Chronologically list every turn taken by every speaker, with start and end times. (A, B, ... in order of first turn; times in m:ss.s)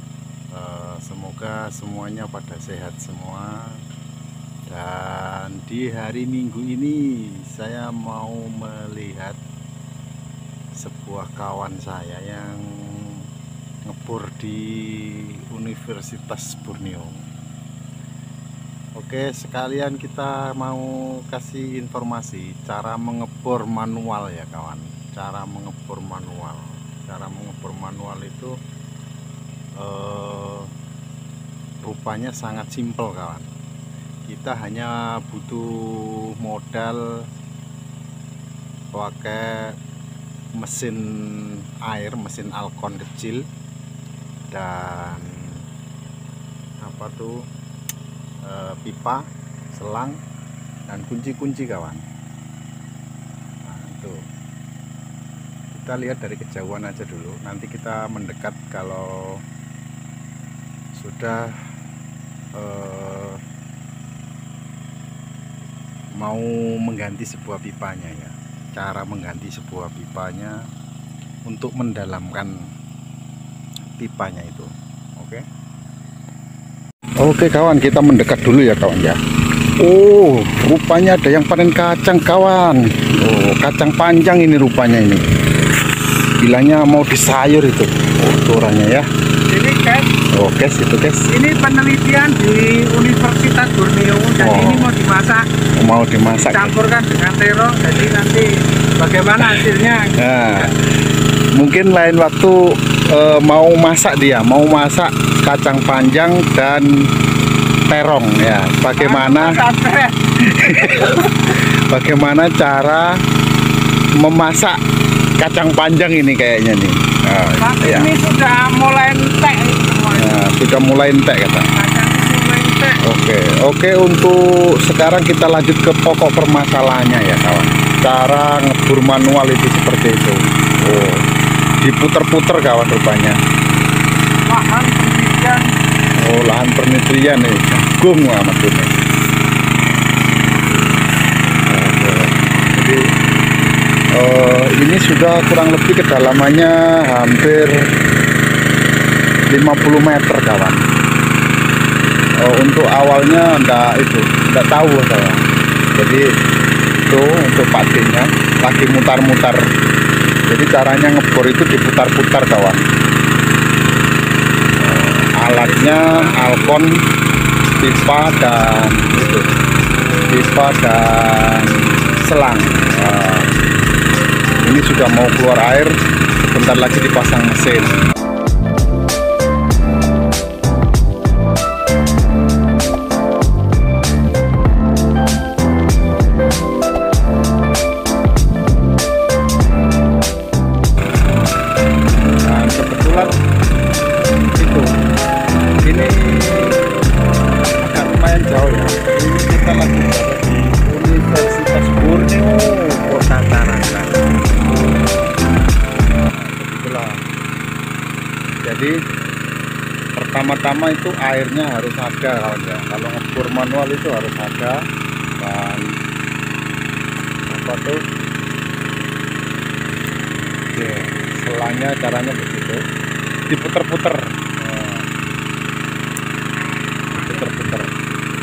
0:00.6-0:03.5 A
0:04.7-0:09.4 A
0:10.8-0:13.2 A
0:13.9-0:17.1 A
0:19.0-0:28.5 A
0:29.8-0:30.7 A
0:31.8-0:33.5 A
0:34.3-0:37.0 A
0:38.9-0:39.7 A
0:40.6-0:43.4 A
0:44.5-0:45.6 A
0:46.8-0:47.3 A
0:48.4-0:49.2 A
0:49.7-0:50.2 A
0:50.9-0:52.0 A
0:53.7-0:54.2 A
0:55.7-0:59.3 A
1:01.0-1:01.5 A
1:02.6-1:03.4 A
1:06.2-1:10.5 A
1:11.5-1:12.5 A
1:13.9-1:15.4 A
1:17.2-1:19.2 A
1:19.8-1:25.2 A
1:26.4-1:29.1 A
1:29.5-1:30.2 B
1:30.3-1:31.3 A
1:31.3-1:35.5 B
1:34.4-1:34.9 A
1:35.8-1:36.8 A
1:36.5-1:40.7 B
1:40.2-1:40.8 A
1:41.6-1:46.9 A
1:47.9-1:49.6 A
1:49.0-1:51.3 B
1:50.4-1:53.2 A
1:54.2-1:54.8 A
1:55.4-1:58.1 A
1:57.6-2:00.4 B
2:00.1-2:01.7 A
2:01.7-2:03.0 B
2:03.0-2:11.2 A
2:11.8-2:13.4 A
2:14.5-2:15.7 B
2:16.2-2:18.9 A
2:21.7-2:23.0 A
2:24.2-2:27.8 A
2:29.5-2:30.8 A
2:32.4-2:35.4 A
2:36.0-2:36.2 A
2:37.0-2:39.6 A
2:40.5-2:42.8 A
2:44.8-2:46.9 A
2:45.6-2:46.8 B
2:47.8-2:49.5 A
2:50.3-2:53.6 A
2:54.6-2:58.0 A
3:12.5-3:13.3 A
3:14.6-3:14.9 A
3:15.9-3:16.7 A
3:17.8-3:24.3 A
3:26.3-3:27.2 A
3:28.6-3:28.9 A
3:30.2-3:34.8 A
3:35.4-3:35.9 A
3:37.5-3:38.0 A
3:40.7-3:42.8 A
3:43.5-3:45.1 A
3:47.2-3:47.4 B
3:47.2-3:47.9 A